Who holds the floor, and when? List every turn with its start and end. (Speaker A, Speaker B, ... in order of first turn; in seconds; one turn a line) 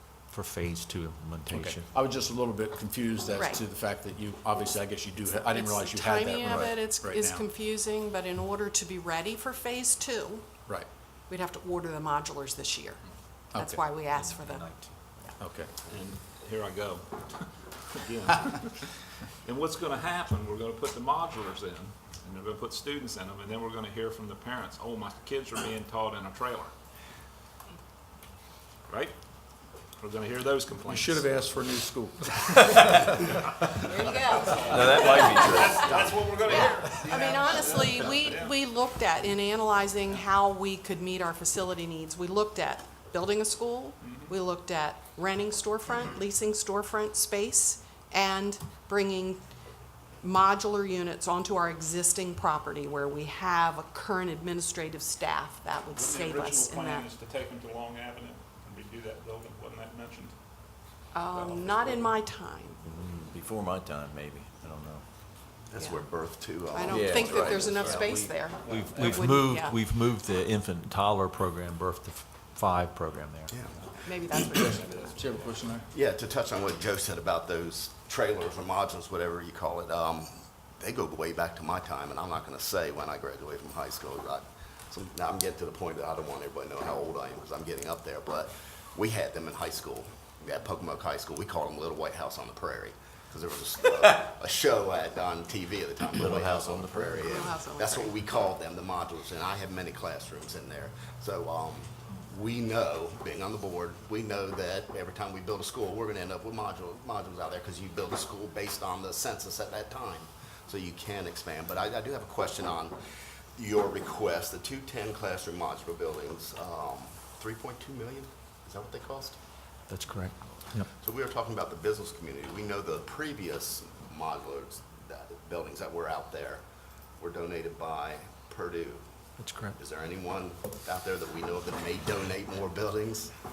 Speaker A: 0.3-1.9
Speaker B: 1.5-7.5
Speaker C: 3.3-3.6
Speaker C: 5.3-10.5
Speaker C: 11.3-13.0
Speaker B: 13.5-13.8
Speaker C: 13.5-14.7
Speaker A: 14.1-15.0
Speaker B: 15.4-15.7
Speaker D: 15.9-17.1
Speaker D: 18.0-18.3
Speaker D: 19.4-26.7
Speaker D: 28.9-29.1
Speaker D: 30.0-30.9
Speaker B: 30.8-33.2
Speaker D: 33.9-38.0
Speaker C: 34.0-35.8
Speaker E: 34.3-36.7
Speaker F: 35.8-36.2
Speaker C: 36.4-49.4
Speaker C: 50.2-57.1
Speaker D: 56.0-57.0
Speaker D: 57.6-60.3
Speaker C: 61.1-62.8
Speaker D: 61.3-62.0
Speaker E: 62.9-65.0
Speaker F: 65.7-68.0
Speaker C: 65.8-66.0
Speaker C: 66.7-69.8
Speaker E: 66.9-68.4
Speaker A: 68.6-73.6
Speaker F: 73.5-73.9
Speaker C: 74.0-75.1
Speaker B: 74.3-75.9
Speaker F: 75.9-112.9
Speaker E: 96.8-97.2
Speaker C: 97.2-98.1
Speaker F: 113.5-119.3
Speaker A: 119.9-120.9
Speaker F: 120.9-126.6
Speaker F: 127.2-129.0
Speaker A: 129.4-129.8
Speaker F: 129.8-133.3